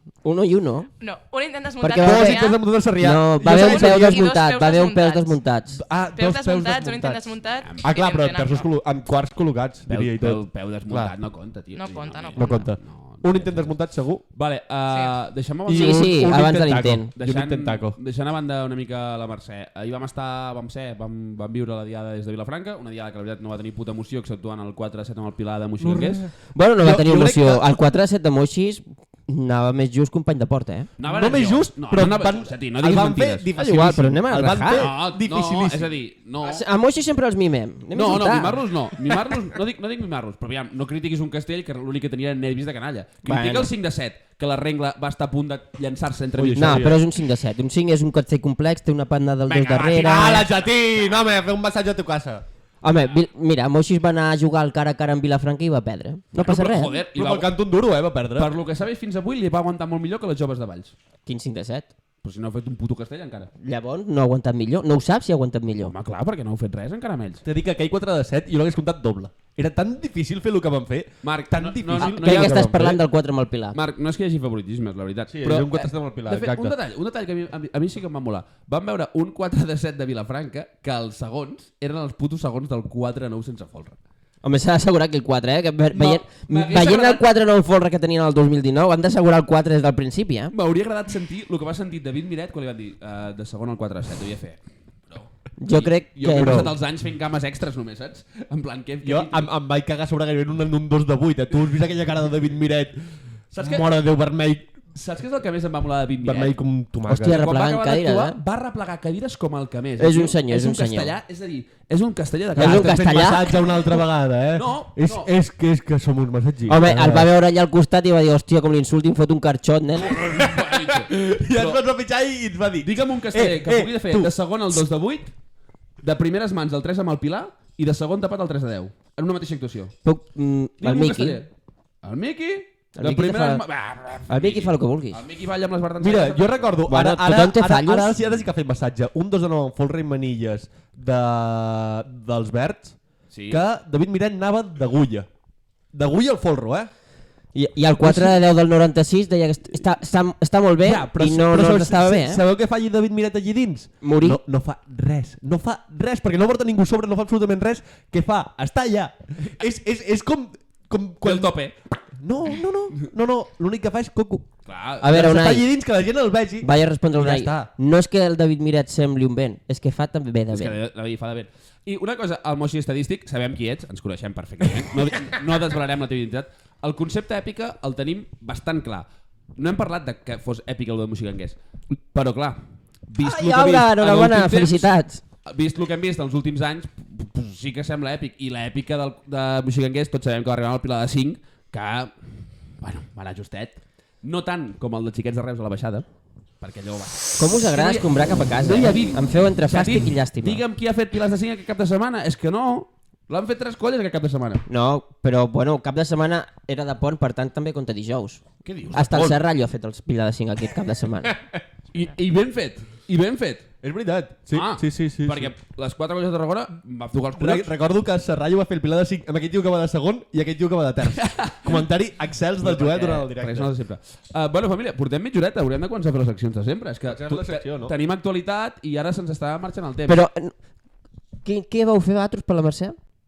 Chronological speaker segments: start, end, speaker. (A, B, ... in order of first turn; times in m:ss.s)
0:00.2-0:00.9 A
0:01.0-0:02.6 B
0:01.8-0:05.8 A
0:01.9-0:04.3 C
0:03.4-0:05.4 B
0:05.7-0:11.1 C
0:06.1-0:08.7 B
0:09.9-0:13.7 D
0:11.8-0:12.7 B
0:12.4-0:14.2 C
0:14.3-0:16.3 D
0:14.9-0:15.1 B
0:15.7-0:17.1 A
0:15.7-0:18.0 C
0:17.2-0:26.2 D
0:25.8-0:27.7 C
0:26.5-0:30.9 A
0:31.0-0:33.5 D
0:31.0-0:35.9 C
0:33.5-0:34.9 A
0:34.7-0:36.6 D
0:36.4-0:38.6 A
0:37.9-0:46.9 D
0:43.2-0:43.7 A
0:46.4-0:47.0 C
0:46.6-0:50.5 A
0:49.4-0:50.6 D
0:50.0-0:52.4 C
0:52.8-0:57.0 A
0:56.4-0:57.5 D
0:57.1-0:58.6 C
0:58.4-1:00.9 D
1:01.2-1:01.9 A
1:02.2-1:03.5 D
1:03.6-1:05.9 A
1:05.8-1:07.4 D
1:07.4-1:13.0 C
1:11.2-1:13.0 D
1:12.0-1:13.8 A
1:13.7-1:24.0 D
1:15.3-1:16.7 C
1:24.4-1:30.5 A
1:25.9-1:27.3 D
1:30.5-1:39.5 D
1:35.6-1:36.7 A
1:36.2-1:36.7 C
1:39.0-1:44.7 C
1:43.5-1:43.8 D
1:44.9-1:46.6 D
1:46.2-1:47.4 C
1:47.1-1:48.4 A
1:47.2-1:53.3 D
1:50.0-1:51.1 A
1:52.6-1:53.7 A
1:52.6-1:57.3 C
1:54.5-1:55.3 D
1:56.7-2:00.2 A
2:00.0-2:01.8 D
2:00.2-2:04.4 C
2:02.8-2:05.3 D
2:06.0-2:09.9 D
2:10.0-2:11.4 A
2:10.8-2:11.5 D
2:12.0-2:16.8 D
2:13.0-2:13.6 A
2:14.3-2:15.2 A
2:16.0-2:23.0 C
2:16.9-2:18.2 A
2:23.3-2:23.6 D
2:23.5-2:25.3 C
2:25.9-2:26.9 C
2:27.5-2:32.4 A
2:28.0-2:28.4 C
2:30.8-2:41.6 C
2:34.0-2:34.4 A
2:41.2-2:41.8 D
2:42.2-2:44.5 C
2:44.6-2:45.1 D
2:45.0-2:45.6 A
2:45.0-2:47.7 C
2:46.6-2:50.8 A
2:50.5-3:01.6 D
3:02.1-3:04.9 D
3:03.2-3:05.2 A
3:05.4-3:16.0 D
3:16.6-3:24.6 D
3:17.4-3:20.6 A
3:24.7-3:28.4 A
3:28.6-3:29.4 D
3:28.9-3:31.4 A
3:31.9-3:33.7 D
3:33.8-3:35.5 C
3:34.5-3:37.7 D
3:37.4-3:43.7 C
3:41.1-3:41.8 D
3:42.6-3:50.2 D
3:47.0-3:47.9 C
3:50.1-3:50.5 A
3:51.4-3:53.0 A